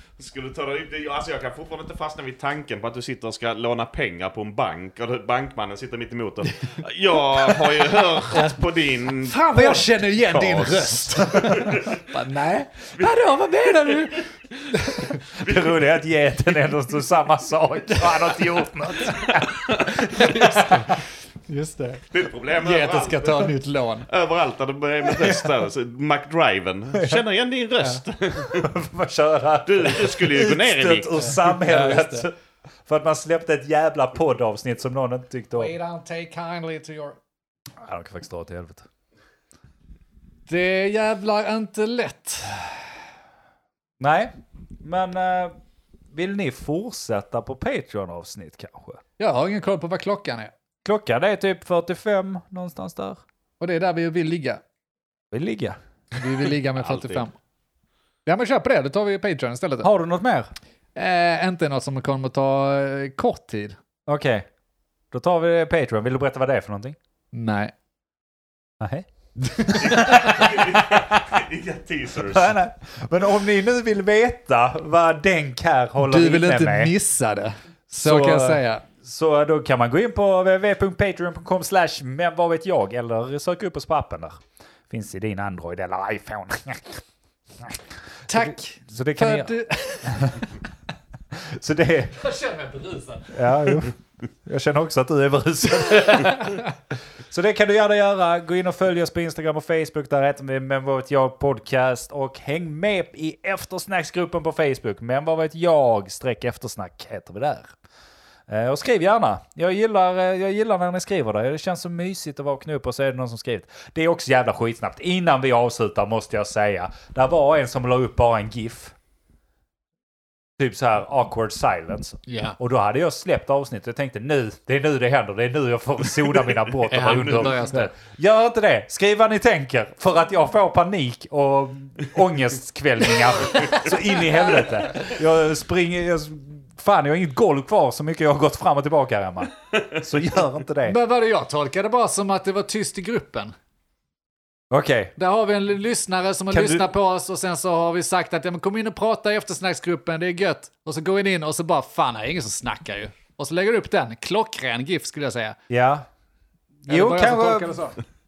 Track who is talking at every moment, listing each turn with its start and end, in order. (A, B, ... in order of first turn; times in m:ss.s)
0:00.2-0:12.0 A
0:06.4-0:08.6 B
0:09.2-0:15.2 B
0:14.9-0:20.9 C
0:15.4-0:15.7 A
0:20.1-0:24.1 B
0:22.1-0:23.5 A
0:24.1-0:28.7 A
0:25.1-0:25.5 C
0:26.9-0:27.2 C
0:28.4-0:32.3 C
0:29.6-0:31.3 A
0:31.2-0:32.3 B
0:32.8-0:35.7 C
0:35.6-0:37.2 B
0:37.8-0:38.8 C
0:40.5-0:42.7 B
0:44.0-0:45.5 C
0:46.1-0:49.0 C
0:49.2-0:50.5 B
0:50.8-0:53.2 C
0:53.6-0:54.6 B
0:55.3-0:55.8 C
0:56.1-0:57.3 B
0:56.8-0:57.2 A
0:58.2-0:59.9 B
0:59.8-1:00.5 C
1:00.9-1:03.8 B
1:04.1-1:04.5 C
1:05.1-1:07.0 C
1:07.3-1:07.7 B
1:08.8-1:11.4 C
1:09.4-1:10.4 B
1:09.8-1:12.6 A
1:12.2-1:16.9 C
1:16.0-1:18.8 B
1:18.0-1:27.0 C
1:27.6-1:30.4 C
1:28.3-1:30.6 B
1:31.3-1:32.1 C
1:32.1-1:33.6 B
1:33.3-1:36.6 C
1:36.3-1:36.6 B
1:37.3-1:47.7 C
1:48.5-1:58.9 C
2:00.6-2:21.0 C
2:07.0-2:07.7 A
2:07.1-2:07.9 B
2:20.8-2:23.5 B
2:24.7-2:25.1 C
2:25.2-2:35.6 B
2:26.5-2:26.8 C
2:35.7-2:36.0 C
2:36.8-2:37.8 C
2:36.9-2:38.0 B